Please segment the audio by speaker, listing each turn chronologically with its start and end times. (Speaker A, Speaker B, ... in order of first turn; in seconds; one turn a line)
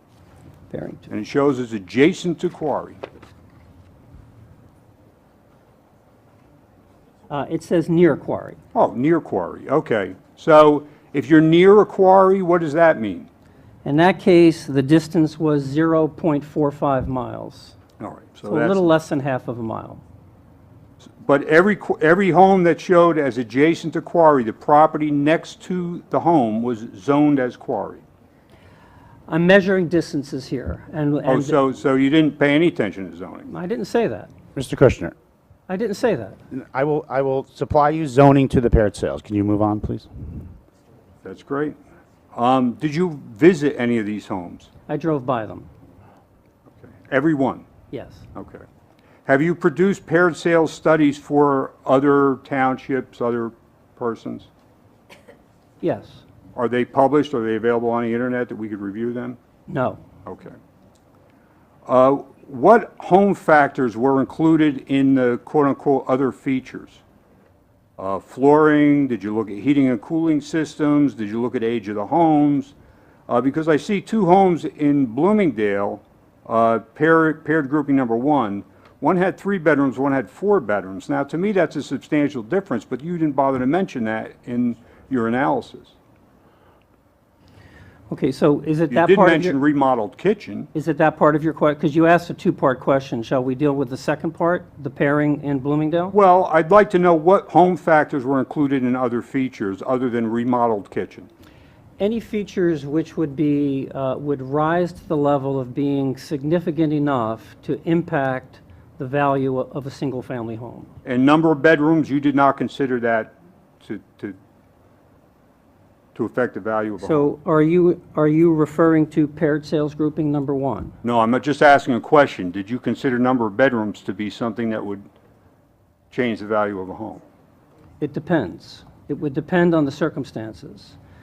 Speaker A: 0.7-1.1
Speaker B: 1.1-3.0
Speaker A: 7.3-8.6
Speaker B: 8.7-13.3
Speaker A: 13.8-17.8
Speaker B: 18.0-18.9
Speaker A: 18.4-20.0
Speaker B: 21.2-28.0
Speaker A: 29.3-31.6
Speaker B: 31.3-33.5
Speaker A: 33.5-34.3
Speaker C: 34.5-35.1
Speaker A: 35.7-36.4
Speaker C: 36.5-40.1
Speaker B: 41.2-41.8
Speaker B: 42.3-44.7
Speaker A: 44.9-45.7
Speaker B: 46.8-47.7
Speaker A: 47.9-48.2
Speaker B: 48.3-48.6
Speaker B: 49.2-54.5
Speaker A: 55.8-56.2
Speaker B: 56.5-59.4
Speaker A: 59.7-60.0
Speaker B: 60.2-60.5
Speaker B: 61.9-67.0
Speaker B: 68.0-72.7
Speaker B: 73.3-85.9
Speaker A: 88.1-89.6
Speaker B: 88.9-90.7
Speaker A: 90.7-96.1
Speaker B: 96.1-101.3
Speaker A: 102.0-110.9
Speaker B: 111.0-114.4
Speaker B: 116.1-117.3
Speaker A: 117.0-120.9
Speaker B: 121.0-125.0
Speaker B: 126.1-127.2
Speaker A: 128.0-130.9